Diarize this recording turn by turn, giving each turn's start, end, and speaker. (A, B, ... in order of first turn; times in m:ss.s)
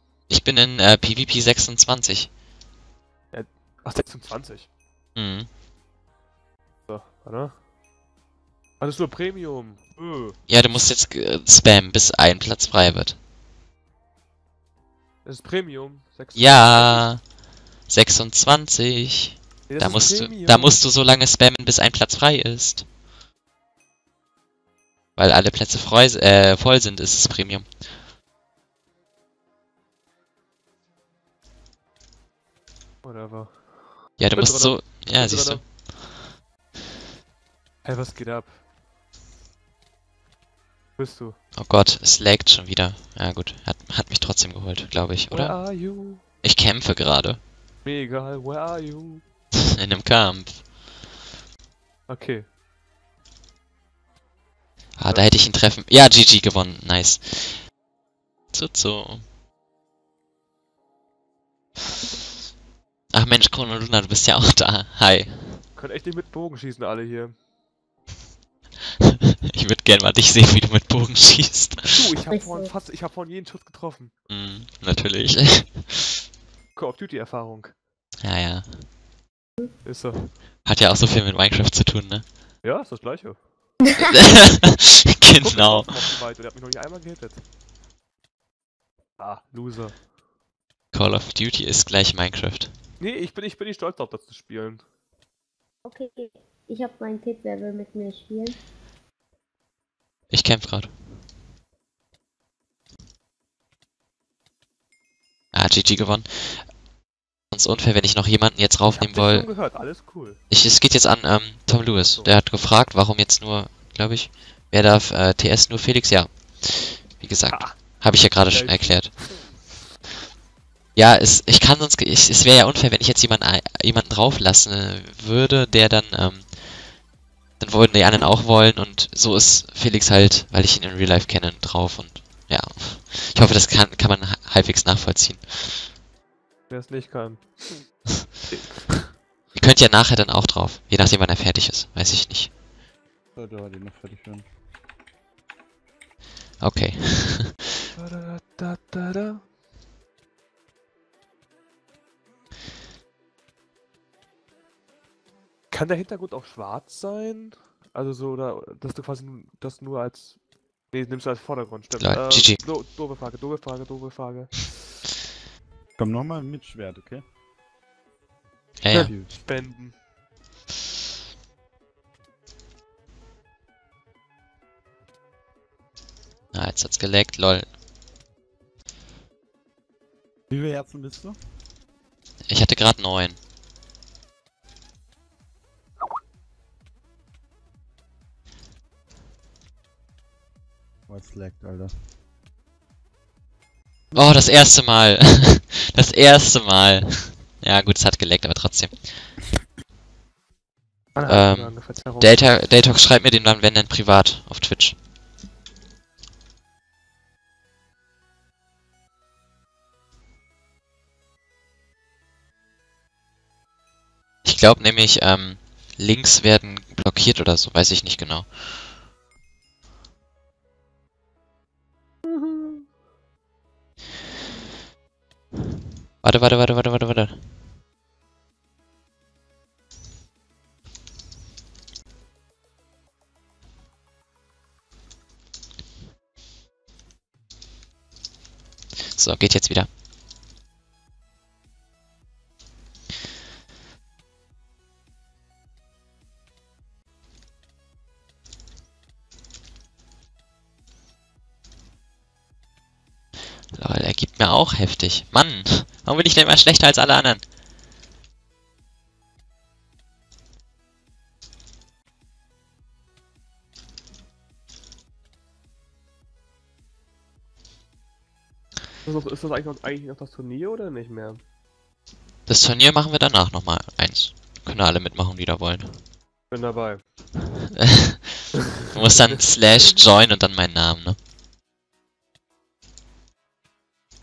0:00.3-0:02.3 A
0:03.3-0:04.7 B
0:05.1-0:05.5 A
0:06.9-0:07.6 B
0:08.8-0:10.4 B
0:10.5-0:13.2 A
0:15.2-0:17.1 B
0:16.3-0:17.3 A
0:17.8-0:22.9 A
0:19.7-0:20.8 B
0:25.2-0:27.8 A
0:33.0-0:35.7 B
0:34.2-0:35.9 A
0:37.8-0:38.6 B
0:41.0-0:41.4 B
0:41.5-0:47.4 A
0:45.3-0:46.2 B
0:47.8-0:49.2 B
0:49.6-0:50.7 A
0:52.1-0:52.5 B
0:55.0-0:57.7 A
0:55.1-0:55.3 B
0:58.5-0:59.3 A
1:03.1-1:05.6 A
1:05.7-1:07.4 B
1:09.0-1:12.0 A
1:11.9-1:14.1 B
1:12.3-1:12.7 C
1:14.3-1:16.0 A
1:16.7-1:17.7 B
1:18.2-1:18.9 A
1:19.8-1:20.3 B
1:20.6-1:22.2 A
1:22.6-1:23.7 B
1:24.0-1:26.0 A
1:25.4-1:27.4 B
1:29.2-1:30.0 B
1:30.9-1:32.7 A
1:33.0-1:34.8 B
1:35.8-1:38.6 C
1:40.3-1:40.9 A
1:45.5-1:46.8 A
1:47.5-1:49.7 A
1:48.9-1:50.4 B
1:50.5-1:59.4 A
1:52.0-1:52.4 B
1:57.5-1:59.7 B
2:00.9-2:06.8 A
2:07.6-2:15.9 A
2:16.7-2:19.1 B
2:19.5-2:22.5 A
2:23.4-2:24.5 D
2:26.6-2:27.6 A
2:28.0-2:29.5 B
2:35.7-2:44.9 B
2:42.0-2:42.6 A
2:46.0-2:47.2 D
2:48.8-2:49.1 A
2:48.9-2:50.0 B
2:56.5-2:57.7 A
3:00.5-3:01.4 D
3:02.4-3:03.4 A
3:11.1-3:11.9 D
3:14.1-3:14.4 B
3:14.1-3:19.3 A
3:21.1-3:22.4 B
3:21.2-3:25.0 A
3:34.4-3:38.8 A
3:42.2-3:42.8 B
3:46.2-3:47.5 A
3:59.1-3:59.9 A
4:13.7-4:17.5 A
4:29.0-4:31.4 B
4:32.4-4:36.0 A
4:36.5-4:37.0 B
4:37.7-4:41.2 A